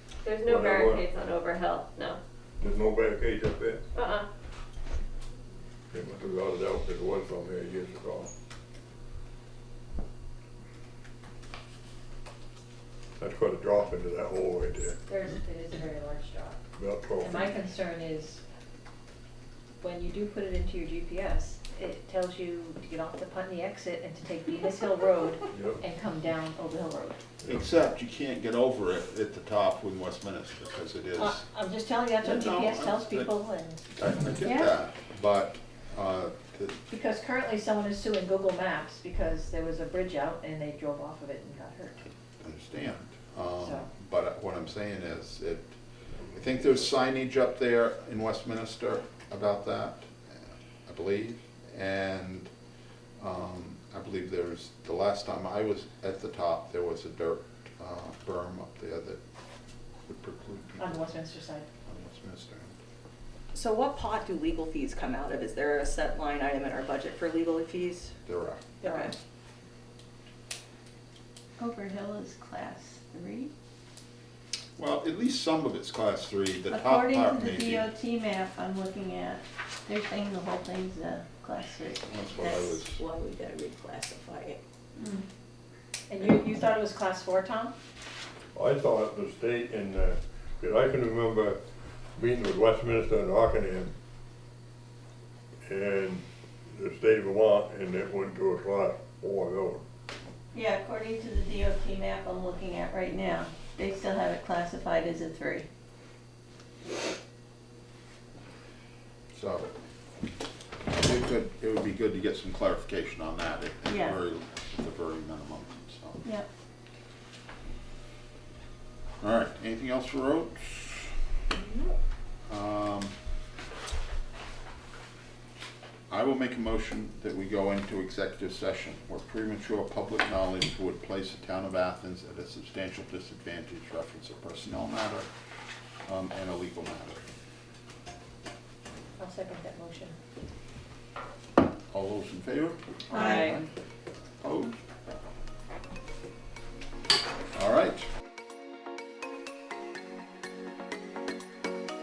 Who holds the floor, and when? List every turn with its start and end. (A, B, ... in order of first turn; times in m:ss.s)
0:00.2-0:02.2 A
0:00.4-0:01.1 B
0:02.6-0:03.8 B
0:03.9-0:04.3 A
0:05.9-0:08.3 B
0:13.2-0:15.0 B
0:15.1-0:16.6 C
0:16.8-0:17.5 B
0:17.2-0:18.4 C
0:19.8-0:27.2 C
0:25.5-0:25.8 B
0:27.4-0:31.4 D
0:31.2-0:33.8 C
0:32.2-0:33.3 D
0:33.9-0:36.8 D
0:34.4-0:34.7 E
0:36.9-0:42.0 C
0:42.4-0:45.7 D
0:43.6-0:43.9 C
0:46.3-0:52.5 D
0:53.2-0:59.2 D
1:00.0-1:01.1 D
1:00.8-1:01.7 C
1:01.8-1:02.8 D
1:03.6-1:08.0 F
1:08.2-1:08.7 D
1:08.8-1:09.1 C
1:08.8-1:09.1 F
1:11.6-1:13.5 E
1:14.8-1:17.9 D
1:16.7-1:25.2 E
1:22.0-1:23.0 D
1:26.1-1:27.7 C
1:28.5-1:31.6 B
1:32.2-1:33.9 B
1:35.6-1:39.8 B
1:40.5-1:45.7 E
1:49.3-1:49.7 D
1:50.9-1:56.2 D
1:53.8-1:54.2 E
1:59.2-2:01.1 D
2:02.5-2:03.1 D
2:06.1-2:15.3 D
2:16.0-2:17.2 D
2:19.2-2:20.2 C
2:21.9-2:23.7 D
2:23.1-2:23.5 E
2:23.1-2:23.4 C
2:23.3-2:23.6 F
2:24.4-2:24.8 D
2:27.5-2:28.0 D